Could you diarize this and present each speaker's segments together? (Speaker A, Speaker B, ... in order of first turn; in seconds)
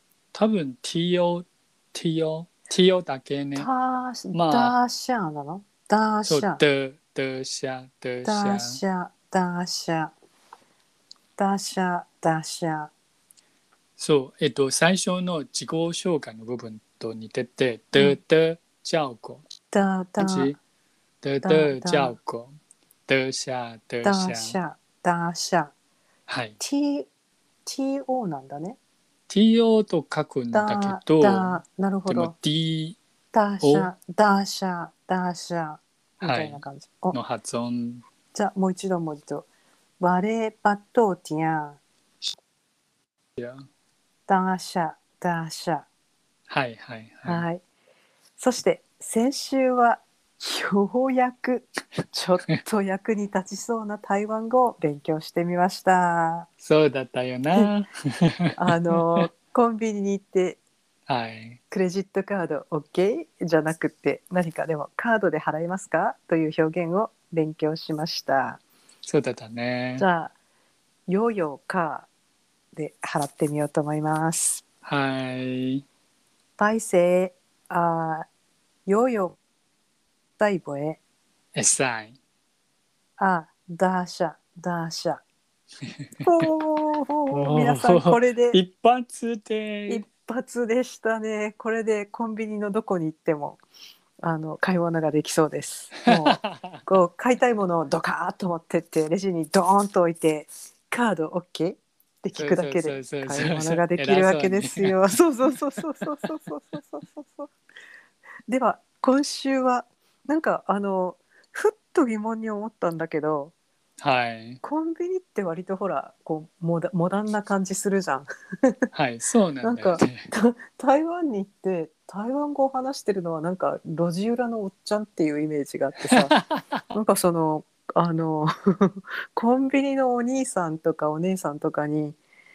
Speaker A: 0.3-3.7, 4.3-4.8, 6.3-8.8, 14.0-19.4, 20.2-20.6, 21.2-22.6, 23.1-24.6, 26.3-26.6, 29.3-33.0, 33.6-33.9, 36.2-36.6, 37.1-38.0, 43.4-43.6, 46.5-47.5, 56.6-58.6, 61.1-61.6, 69.0-70.0, 74.8-75.8, 81.5-82.2, 87.3-90.0, 96.2-96.8, 102.4-105.0, 114.0-114.6, 118.9-120.3, 126.1-126.8
Speaker B: 3.6-6.6, 8.2-10.1, 11.4-12.9, 19.7-20.6, 21.4-22.1, 24.0-25.7, 26.6-27.1, 27.7-28.8, 30.5-32.3, 33.3-37.2, 38.3-39.5, 40.0-41.8, 44.3-45.9, 47.3-47.6, 48.4-56.5, 58.6-60.6, 61.7-68.6, 70.0-70.3, 71.1-72.1, 72.7-74.6, 76.6-78.3, 78.9-79.4, 80.4-81.0, 83.2-85.2, 86.2-88.6, 89.9-93.6, 94.2-107.5, 108.5-113.5, 114.6-118.8, 119.6-126.3, 126.9-132.2